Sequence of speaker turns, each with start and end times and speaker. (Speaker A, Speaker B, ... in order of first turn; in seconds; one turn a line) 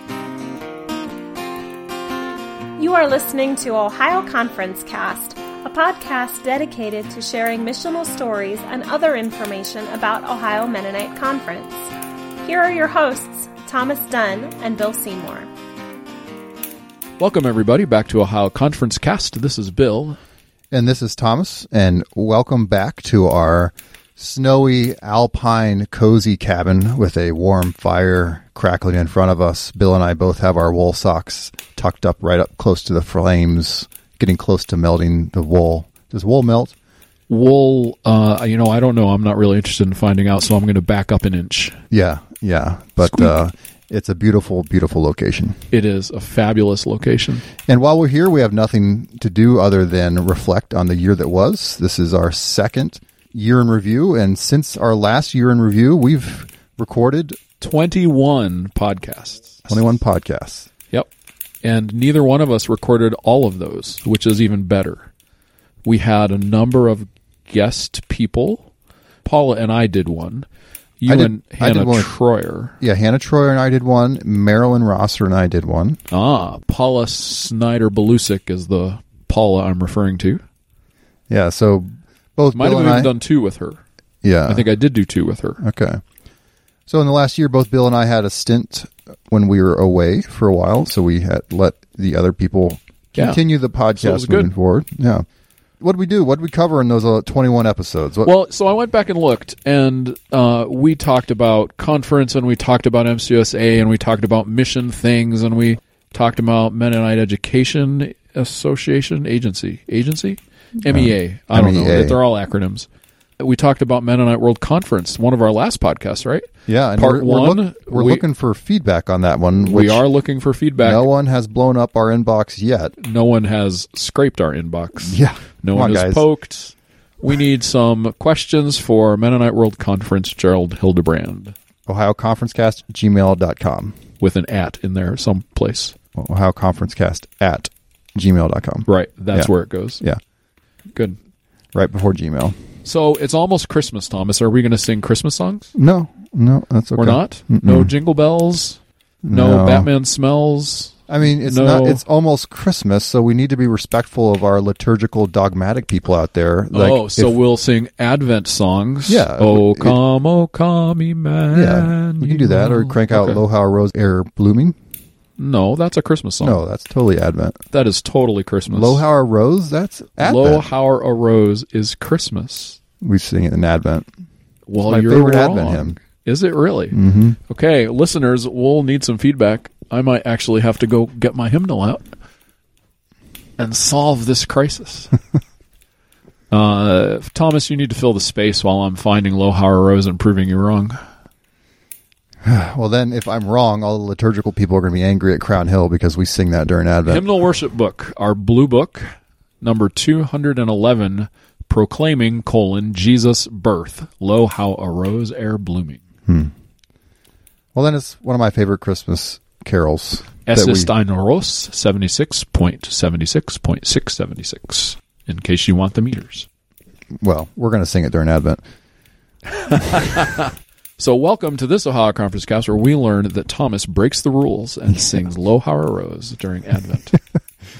Speaker A: 2.8-11.9
Speaker A: 12.4-15.5
Speaker B: 17.2-20.2
Speaker C: 20.7-36.7
Speaker B: 37.3-41.8
Speaker C: 41.9-45.6
Speaker B: 43.0-43.3
Speaker B: 45.7-47.5
Speaker C: 47.7-57.4
Speaker B: 57.6-59.8
Speaker C: 59.7-60.7
Speaker B: 61.6-65.1
Speaker B: 65.8-68.7
Speaker B: 69.2-70.5
Speaker B: 71.0-72.8
Speaker C: 71.0-72.1
Speaker C: 72.8-76.0
Speaker B: 76.1-80.4
Speaker C: 81.3-83.1
Speaker B: 82.5-83.8
Speaker C: 84.2-84.7
Speaker B: 84.5-85.6
Speaker C: 85.6-86.0
Speaker C: 86.9-95.2
Speaker B: 93.1-93.4
Speaker B: 94.0-94.5
Speaker C: 95.8-98.3
Speaker B: 98.2-112.9
Speaker C: 110.9-112.2
Speaker B: 113.4-118.2
Speaker C: 116.7-120.0
Speaker B: 119.6-121.1
Speaker C: 120.8-122.9
Speaker B: 123.0-131.5
Speaker C: 125.0-126.3
Speaker C: 131.9-133.9
Speaker B: 134.2-135.9
Speaker C: 136.1-140.2
Speaker B: 138.8-140.0
Speaker C: 141.7-142.6
Speaker B: 142.8-145.7
Speaker C: 145.7-147.9
Speaker B: 146.9-152.0
Speaker C: 149.2-149.9
Speaker C: 151.1-157.3
Speaker B: 156.7-163.4
Speaker C: 159.1-160.0
Speaker C: 161.5-164.8
Speaker B: 165.4-166.6
Speaker C: 166.4-167.6
Speaker B: 167.7-169.0
Speaker C: 168.7-170.7
Speaker B: 170.2-172.8
Speaker C: 173.0-174.1
Speaker B: 174.7-182.1
Speaker C: 174.8-176.0
Speaker C: 176.9-177.4
Speaker B: 183.6-185.1
Speaker B: 186.5-191.0
Speaker C: 192.4-197.2
Speaker B: 197.1-199.1
Speaker B: 199.6-206.0
Speaker C: 207.7-210.9
Speaker B: 210.4-216.5
Speaker C: 217.2-218.6
Speaker B: 219.5-227.1